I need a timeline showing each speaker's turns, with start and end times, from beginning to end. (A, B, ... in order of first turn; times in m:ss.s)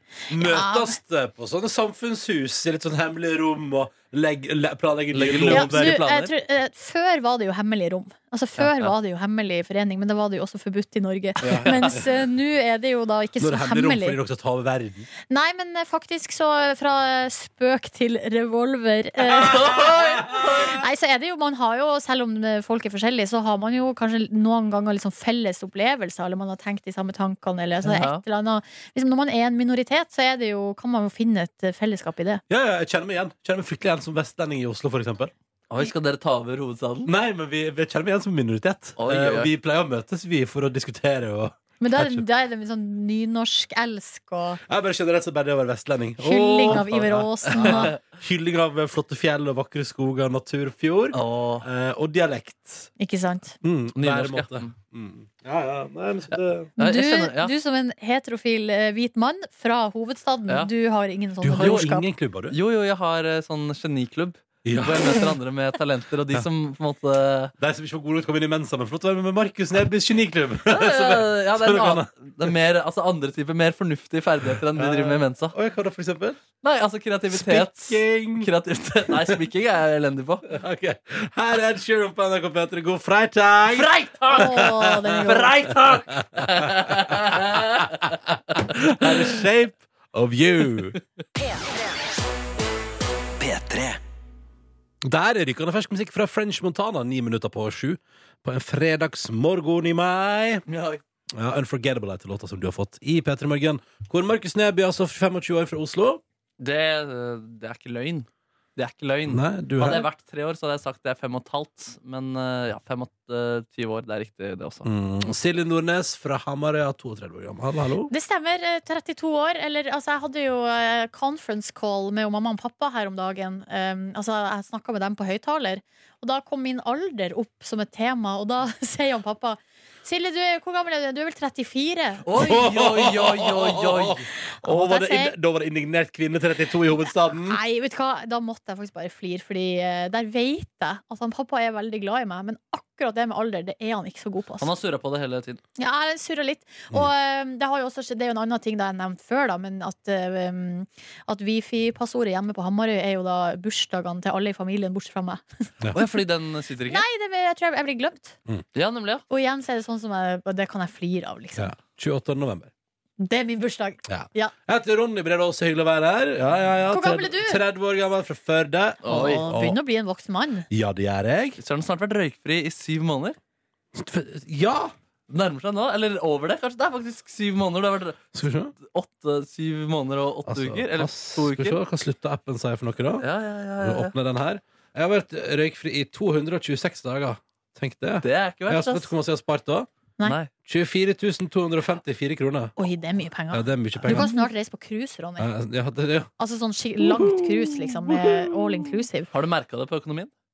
0:00.3-0:06.0 A
0:00.3-0:01.0 B
0:05.1-0:06.3 C
0:05.5-0:14.2 B
0:08.6-0:08.9 C
0:11.4-0:12.1 A
0:13.4-0:15.1 A
0:15.3-0:32.4 B
0:19.4-0:20.8 C
0:27.8-0:28.2 C
0:32.5-0:35.3 A
0:35.7-0:37.1 C
0:37.0-0:42.3 A
0:39.0-0:39.5 C
0:41.8-0:44.6 B
0:44.7-0:52.9 A
0:46.2-0:48.0 B
0:47.5-0:48.0 C
0:51.1-0:51.7 C
0:53.0-0:53.6 B
0:53.6-0:56.7 A
0:54.0-0:54.7 C
0:56.8-0:57.5 C
0:56.8-1:02.1 B
1:01.4-1:02.6 A
1:01.6-1:01.9 C
1:02.5-1:07.5 C
1:04.6-1:05.3 A
1:07.6-1:12.5 A
1:10.7-1:15.5 C
1:14.7-1:16.4 A
1:16.6-1:20.5 C
1:17.3-1:18.5 A
1:19.1-1:19.4 A
1:20.5-1:31.0 A
1:23.7-1:28.1 C
1:24.3-1:25.5 B
1:33.4-1:34.0 C
1:35.0-1:40.6 A
1:40.7-1:41.0 C
1:41.4-1:46.2 A
1:46.6-1:54.9 C
1:49.3-1:50.1 A
1:54.8-1:58.1 A
1:58.1-2:12.2 B
2:12.2-2:14.3 C
2:12.3-2:17.6 A
2:14.6-2:15.4 B
2:17.5-2:24.7 B
2:24.6-2:25.6 C
2:25.8-2:35.7 B
2:35.9-2:37.0 C
2:36.9-2:38.4 B
2:38.8-2:39.2 C
2:39.3-2:41.7 B
2:41.6-2:42.7 A
2:43.2-2:44.5 B
2:44.1-2:49.8 A
2:46.9-2:47.6 B
2:49.0-2:49.4 C
2:49.1-2:50.7 B
2:50.7-2:51.6 A
2:51.6-2:53.4 C
2:54.0-2:54.9 A
2:55.3-2:58.3 C
2:58.3-2:58.7 A
2:58.8-3:01.8 C
3:00.5-3:03.3 A
3:03.2-3:04.1 C
3:03.8-3:09.9 A
3:08.2-3:09.1 C
3:10.2-3:10.5 C
3:10.6-3:12.7 A
3:12.8-3:15.5 B
3:13.5-3:14.3 A
3:15.4-3:16.3 A
3:16.4-3:19.3 B
3:17.0-3:19.0 A
3:19.3-3:20.3 C